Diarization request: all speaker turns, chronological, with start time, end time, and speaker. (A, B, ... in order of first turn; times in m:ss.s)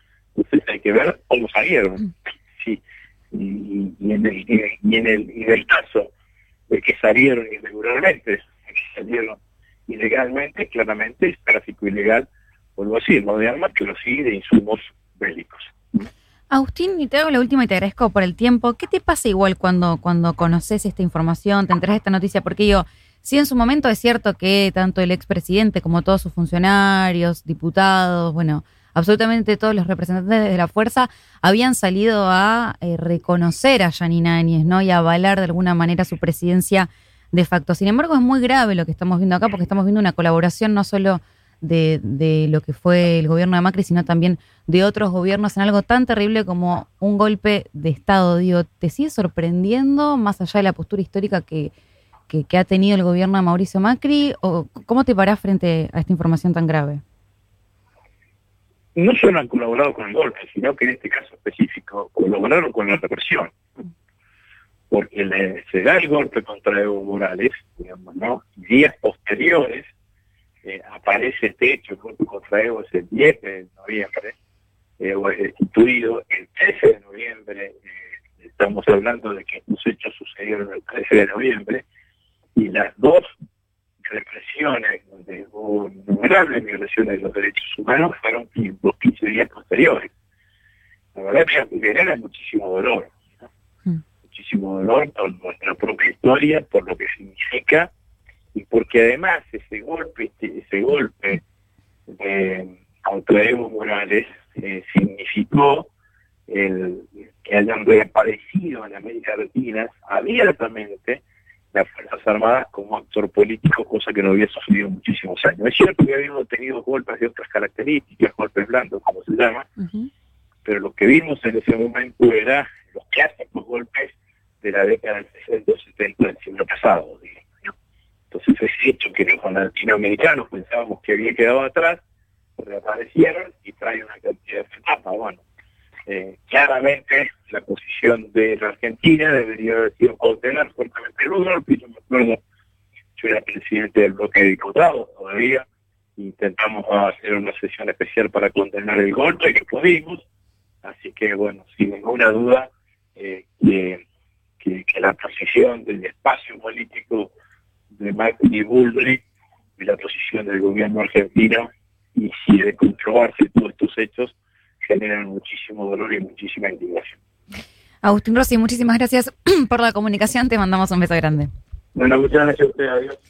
0:00.4-0:02.8 A
0:03.3-0:06.1 A
0:06.7-0:16.1 A
0:16.5-0:51.7 B
0:52.3-0:57.0 B
0:59.0-1:03.5 A
1:04.9-1:09.9 A
1:10.6-1:14.3 A
1:15.0-1:21.8 A
1:22.6-1:23.3 A
1:24.0-1:30.1 A
1:31.2-1:33.2 A
1:34.2-1:37.9 A
1:38.6-1:41.4 A
1:42.1-1:45.9 A
1:46.5-1:51.2 A
1:51.7-1:59.7 A
1:59.8-2:00.1 B
2:00.6-2:07.7 A
2:08.3-2:12.0 A
2:12.6-2:15.4 A
2:16.1-2:22.4 A
2:23.2-2:25.7 A
2:26.2-2:30.2 A
2:30.8-2:34.0 A
2:34.6-2:37.3 A
2:37.9-2:39.2 A
2:39.8-2:47.2 A
2:48.0-2:51.5 B
2:52.0-2:53.2 A